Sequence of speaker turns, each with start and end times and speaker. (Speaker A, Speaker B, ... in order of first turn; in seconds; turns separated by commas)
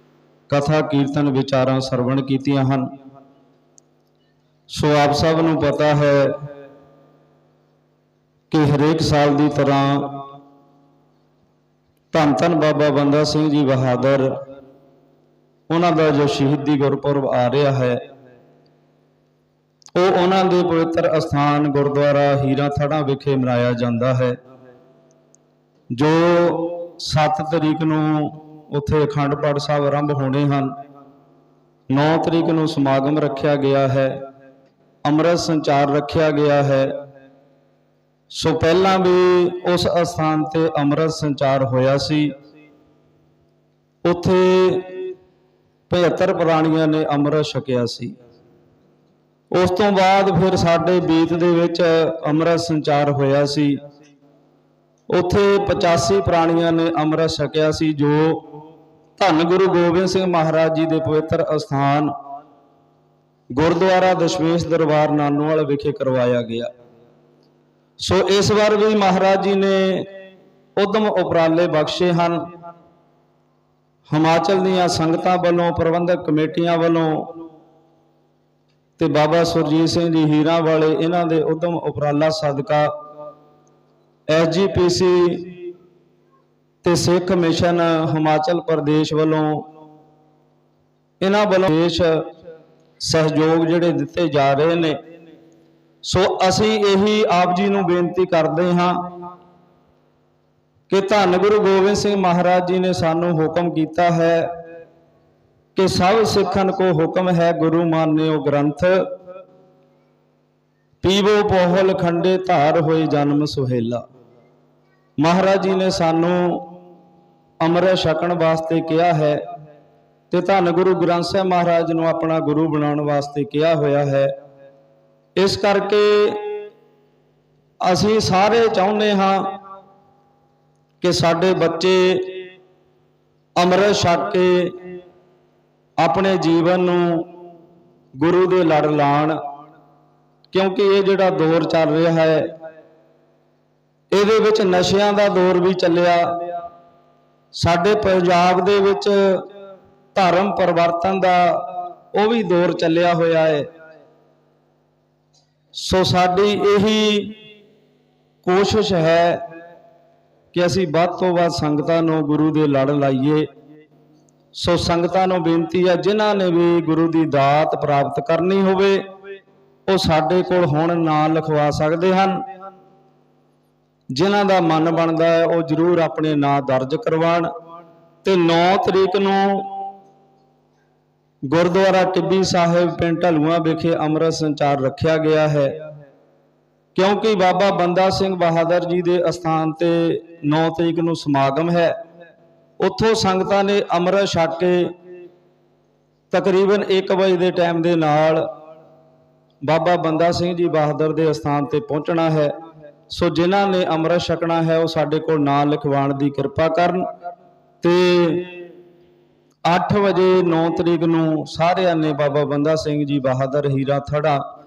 Speaker A: 0.5-2.9, Speaker A: 4.7-6.4, Speaker A: 8.5-10.2, Speaker A: 12.1-14.4, Speaker A: 15.7-18.0, Speaker A: 19.9-24.4, Speaker A: 25.9-30.8, Speaker A: 31.9-34.2, Speaker A: 35.0-37.0, Speaker A: 38.3-42.4, Speaker A: 44.0-45.1, Speaker A: 45.9-48.2, Speaker A: 49.5-53.8, Speaker A: 55.1-58.6, Speaker A: 59.2-62.1, Speaker A: 63.5-66.7, Speaker A: 68.0-70.1, Speaker A: 70.8-72.5, Speaker A: 74.1-77.3, Speaker A: 79.0-82.9, Speaker A: 84.3-85.6, Speaker A: 86.8-89.7, Speaker A: 91.2-92.3, Speaker A: 93.0-95.0, Speaker A: 96.0-99.0, Speaker A: 100.9-104.5, Speaker A: 105.8-109.1, Speaker A: 111.0-114.0, Speaker A: 115.2-116.7, Speaker A: 117.6-119.4, Speaker A: 120.3-124.3, Speaker A: 125.4-126.6, Speaker A: 127.8-129.6, Speaker A: 131.0-132.4, Speaker A: 133.6-134.8, Speaker A: 136.0-137.3, Speaker A: 138.2-139.4, Speaker A: 140.5-142.5, Speaker A: 144.1-146.5, Speaker A: 147.5-149.5, Speaker A: 150.1-153.7, Speaker A: 155.7-157.4, Speaker A: 158.4-159.5, Speaker A: 160.5-163.5, Speaker A: 164.5-169.1, Speaker A: 169.9-172.4, Speaker A: 174.1-177.5, Speaker A: 178.2-179.8, Speaker A: 181.5-185.8, Speaker A: 186.9-192.0, Speaker A: 192.8-194.9, Speaker A: 196.3-198.5, Speaker A: 199.6-202.6, Speaker A: 203.1-207.1, Speaker A: 207.8-208.6, Speaker A: 209.7-214.5